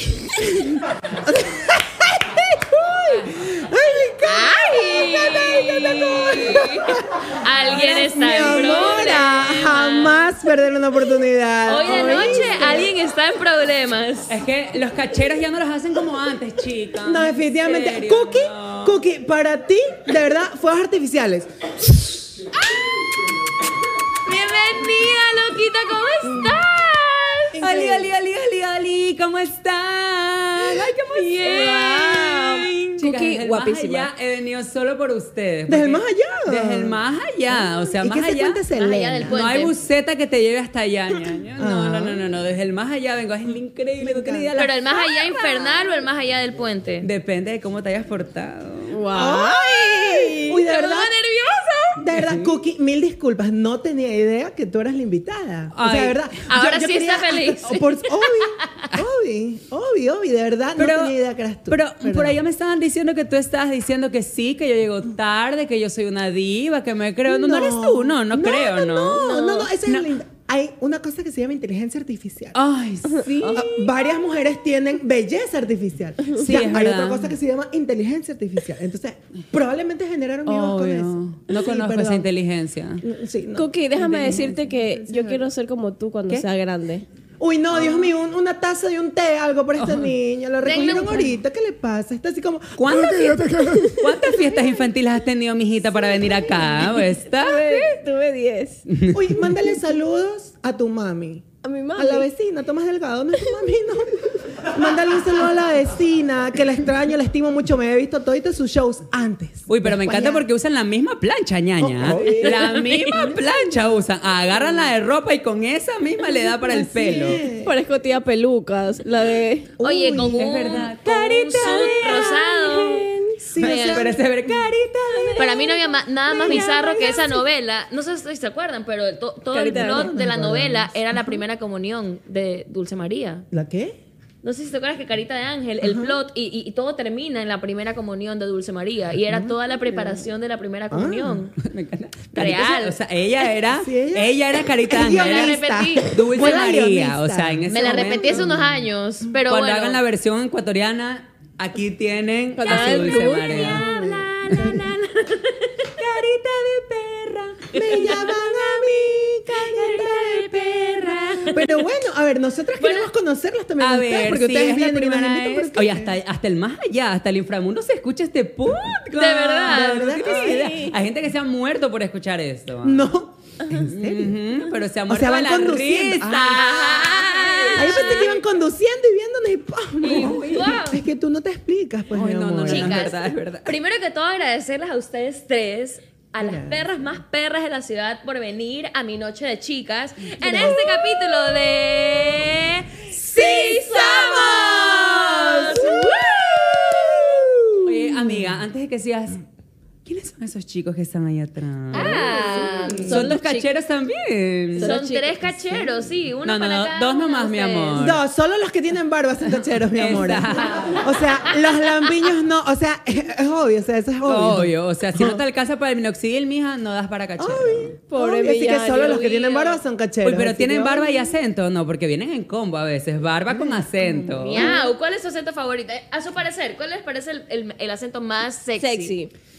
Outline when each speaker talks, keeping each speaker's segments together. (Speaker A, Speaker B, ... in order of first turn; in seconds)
Speaker A: 0.4-0.6, 1.2-12.9, 17.0-21.5, 26.3-26.6, 27.5-28.1, 35.7-37.0, 38.0-39.4, 41.6-42.2, 44.0-44.5, 49.1-51.1, 52.0-62.4, 67.3-72.5, 73.5-82.3, 83.0-85.5, 87.4-94.0, 99.1-110.5, 111.8-112.6, 113.1-113.5, 116.5-117.8, 119.8-120.5, 123.4-124.2, 126.4-127.2, 129.8-131.3, 133.5-134.0, 135.8-136.2, 139.3-139.6, 140.9-141.4, 143.7-149.4, 153.5-154.9, 157.7-166.2, 169.7-170.7, 172.8-174.4, 175.1-176.9, 177.8-183.2, 186.4-186.9, 190.4-191.3, 193.1-198.5, 202.8-203.3, 208.0-215.4, 217.4-221.3, 223.5-224.7
Speaker B: 0.8-1.4, 3.0-3.5, 8.3-9.0, 14.3-19.0, 27.6-32.0, 33.0-38.6, 39.3-45.9, 47.0-49.0, 52.1-52.5, 55.8-56.3, 60.8-61.1, 61.7-70.1, 72.5-73.8, 76.4-77.3, 80.5-83.0, 84.2-84.5, 87.8-88.1, 89.8-90.1, 92.8-97.9, 98.9-99.3, 109.7-117.4, 120.4-122.5, 123.6-125.5, 141.6-148.5, 149.5-153.8, 156.0-158.3, 160.3-161.6, 163.8-173.1, 173.9-177.1, 180.0-180.8, 182.1-183.7, 197.8-199.4, 200.1-202.3, 203.1-205.0, 206.4-208.2, 209.9-211.0, 214.2-218.0, 220.2-224.7
Speaker C: 4.2-10.3, 11.7-14.4, 24.2-27.6, 31.1-33.0, 38.8-39.7, 44.6-47.1, 50.5-52.0, 56.5-58.0, 90.6-91.3, 112.5-113.1, 119.8-123.0, 123.6-124.1, 125.4-133.5, 134.4-141.5, 142.3-143.0, 145.1-146.7, 147.7-150.0, 153.5-155.9, 157.7-158.7, 159.6-161.6, 162.8-163.1, 169.1-170.0, 176.5-178.4, 180.0-181.0, 182.7-196.1, 201.9-203.2, 204.8-208.1, 224.4-229.2
Speaker D: 11.8-12.8, 31.3-34.1, 48.9-50.6, 73.1-73.7, 83.5-87.0, 93.8-94.3, 96.6-98.8, 101.6-102.3, 112.1-112.5, 117.6-119.7, 122.0-123.4, 125.1-127.4, 129.5-130.2, 152.6-153.6, 170.2-170.9, 177.2-178.2, 201.9-203.7, 204.7-205.7, 218.1-219.8, 224.6-224.9, 228.8-229.3